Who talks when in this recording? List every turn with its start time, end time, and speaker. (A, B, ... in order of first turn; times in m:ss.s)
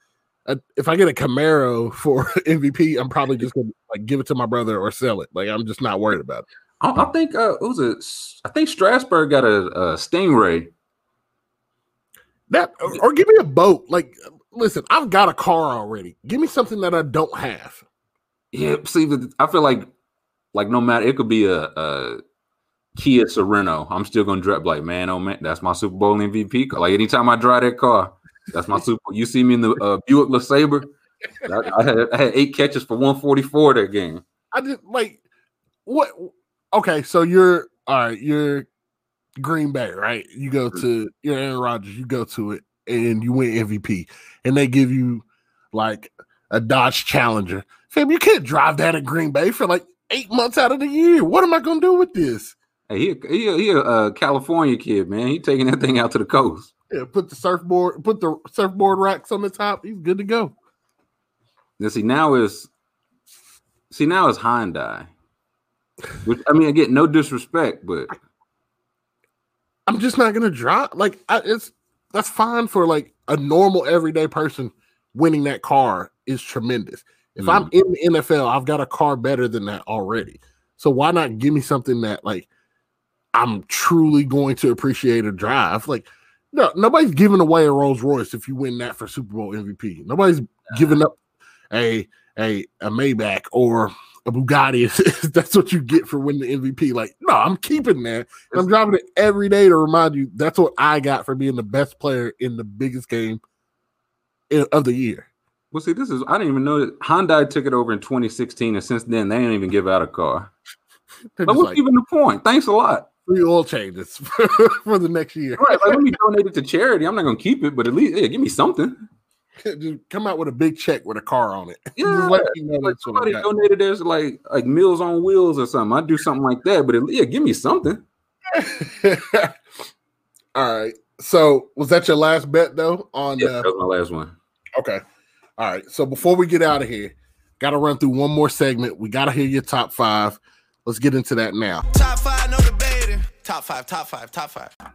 0:00.5-0:06.4 A
0:06.8-0:10.7 B
0:12.5-0:17.8 A
0:18.5-0:19.9 B
0:20.5-0:22.2 B
0:23.0-0:30.9 B
0:31.4-0:34.2 B
0:34.5-0:35.2 A
0:35.8-0:38.7 A
0:39.4-0:52.6 A
0:52.9-0:56.7 B
0:56.9-1:00.5 A
1:01.8-1:02.7 B
1:03.9-1:05.1 B
1:06.2-1:08.1 B
1:09.9-1:22.5 A
1:17.4-1:17.7 B
1:23.3-1:31.1 A
1:31.7-1:43.4 A
1:44.5-1:45.3 A
1:45.7-1:50.5 B
1:51.4-1:51.8 A
1:51.4-1:53.1 B
1:53.3-1:56.2 A
1:55.6-1:59.0 B
1:59.6-2:03.4 A
2:02.0-2:08.0 B
2:08.5-2:09.5 A
2:10.6-2:13.7 A
2:13.4-2:14.4 B
2:15.6-2:21.8 A
2:21.9-2:24.7 C